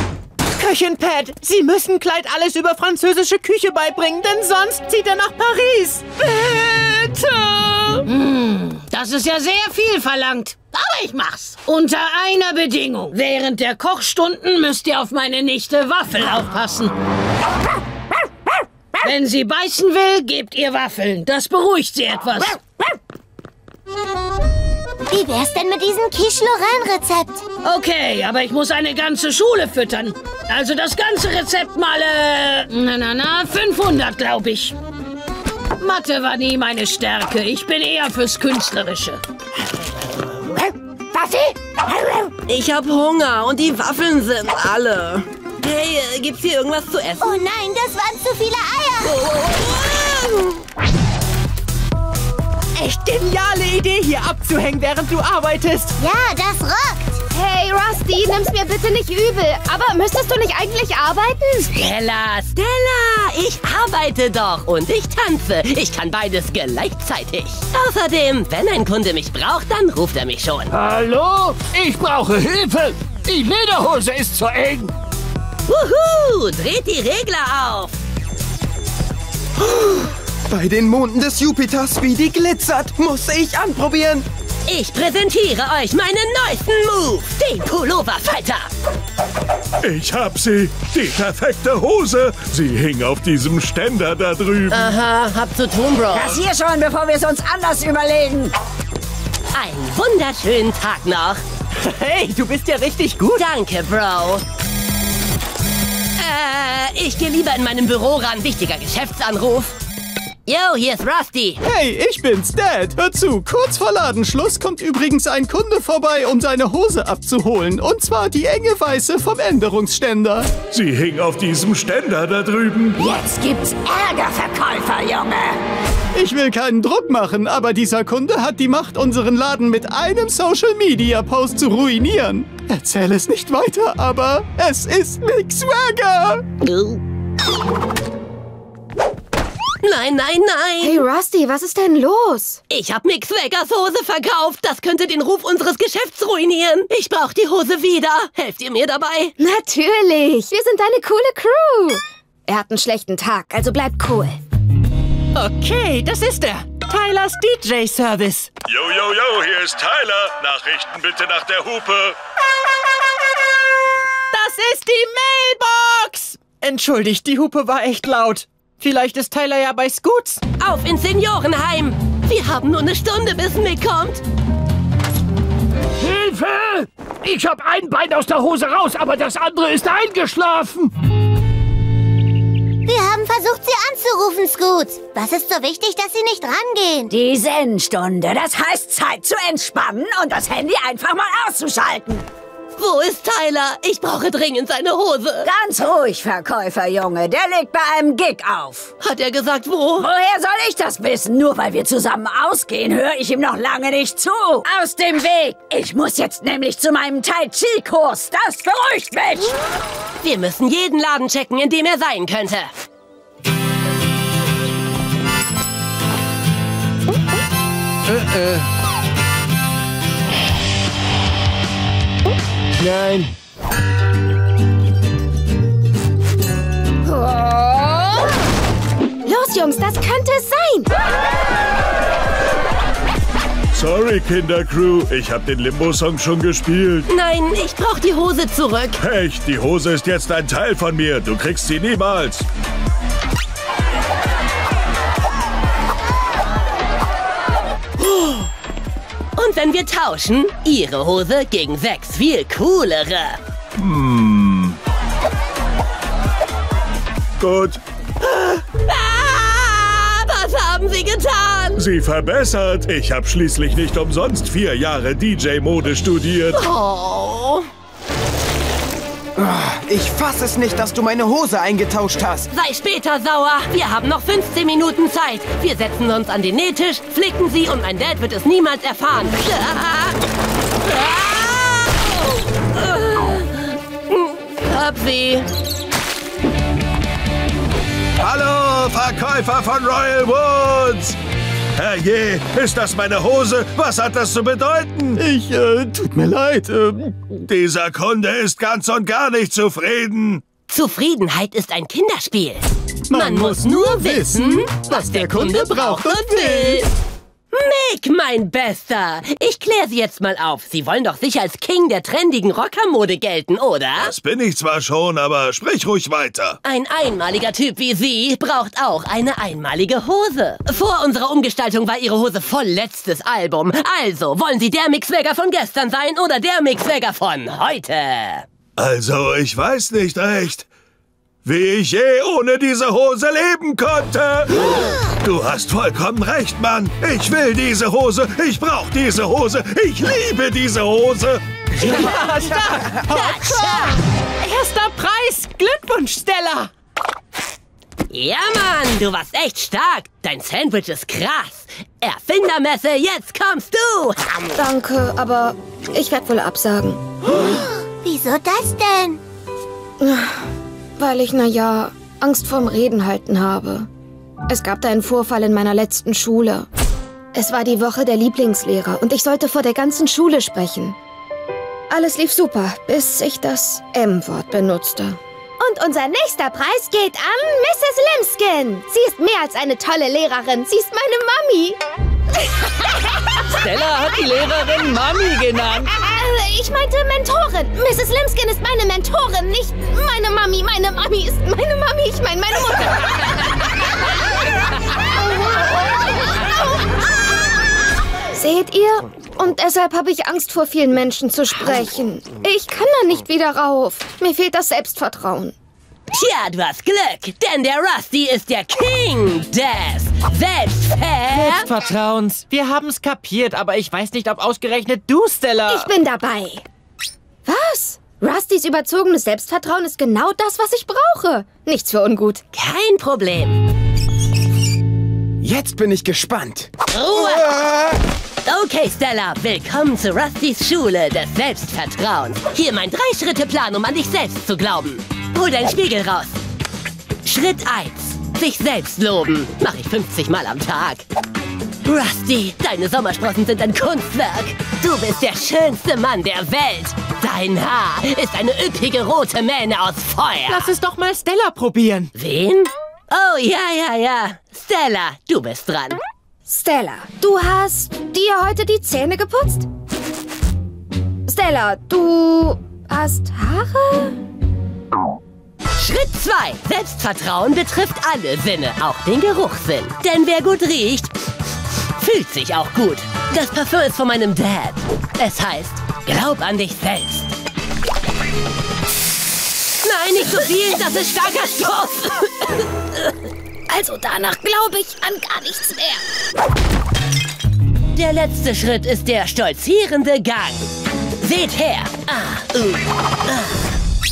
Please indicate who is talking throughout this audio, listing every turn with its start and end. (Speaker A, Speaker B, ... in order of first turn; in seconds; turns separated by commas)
Speaker A: 0.6-6.2, Speaker B: 8.1-10.5, Speaker B: 11.0-16.9, Speaker B: 19.1-22.4, Speaker C: 25.1-27.4, Speaker B: 27.9-29.9, Speaker B: 30.6-31.9, Speaker B: 33.0-33.5, Speaker B: 36.8-37.6, Speaker D: 41.9-47.4, Speaker C: 47.2-49.2, Speaker D: 49.1-50.5, Speaker A: 52.8-55.9, Speaker C: 56.0-57.2, Speaker E: 57.3-61.7, Speaker D: 61.7-70.7, Speaker F: 70.8-74.8, Speaker D: 75.7-77.9, Speaker G: 79.7-84.3, Speaker D: 84.7-88.7, Speaker H: 89.8-94.8, Speaker D: 94.7-96.4, Speaker I: 96.1-98.5, Speaker D: 99.5-101.4, Speaker A: 101.8-103.5, Speaker D: 103.3-104.4, Speaker D: 106.2-109.7, Speaker D: 110.5-111.6, Speaker J: 111.6-120.5, Speaker H: 120.7-123.0, Speaker I: 123.0-125.6, Speaker J: 126.1-136.4, Speaker D: 136.6-137.0, Speaker D: 139.8-141.0, Speaker E: 140.8-142.6, Speaker D: 142.7-149.3, Speaker E: 149.4-154.4, Speaker A: 155.3-158.5, Speaker H: 158.7-162.2, Speaker A: 164.3-170.4, Speaker D: 170.6-174.2, Speaker F: 176.1-180.8, Speaker C: 182.8-187.1, Speaker I: 187.1-192.2, Speaker D: 192.8-195.5, Speaker I: 195.4-198.9, Speaker D: 199.0-200.1, Speaker I: 200.0-209.5, Speaker D: 210.2-212.7, Speaker E: 227.0-228.3, Speaker E: 229.2-230.9, Speaker H: 233.7-237.1, Speaker D: 237.1-238.9, Speaker H: 239.0-242.4, Speaker D: 249.4-253.4, Speaker H: 253.8-254.8, Speaker H: 257.4-257.8, Speaker D: 258.2-261.8, Speaker H: 261.8-266.6, Speaker D: 266.5-267.7, Speaker G: 269.4-272.5, Speaker D: 272.5-280.1, Speaker D: 280.8-282.1, Speaker D: 282.7-285.5, Speaker H: 288.2-291.1, Speaker H: 291.7-295.2, Speaker J: 295.1-297.2, Speaker H: 297.4-300.4, Speaker D: 300.7-306.9, Speaker J: 303.1-306.8, Speaker D: 307.5-314.1, Speaker H: 313.9-316.6, Speaker D: 316.6-328.4, Speaker H: 328.8-330.6, Speaker H: 331.4-341.4, Speaker A: 341.8-346.7, Speaker G: 341.9-342.9, Speaker D: 348.1-354.2, Speaker E: 354.6-357.0, Speaker C: 357.4-359.2, Speaker E: 360.0-360.4, Speaker E: 361.0-363.9, Speaker E: 364.5-366.7, Speaker E: 367.3-370.9, Speaker E: 371.9-381.8, Speaker E: 385.8-393.6, Speaker E: 398.3-405.5, Speaker D: 406.1-411.7, Speaker A: 411.3-415.9, Speaker E: 415.7-416.6, Speaker E: 417.4-422.4, Speaker D: 422.5-423.6, Speaker G: 425.4-427.7, Speaker D: 426.9-427.6, Speaker D: 428.4-436.4, Speaker D: 437.2-441.0, Speaker D: 441.8-450.7, Speaker A: 450.5-452.1, Speaker D: 452.1-456.0, Speaker E: 456.5-459.7, Speaker E: 461.3-464.2, Speaker D: 465.8-471.1, Speaker D: 472.0-477.3, Speaker D: 479.8-483.1, Speaker D: 483.7-485.8, Speaker D: 487.9-490.6, Speaker D: 491.2-493.6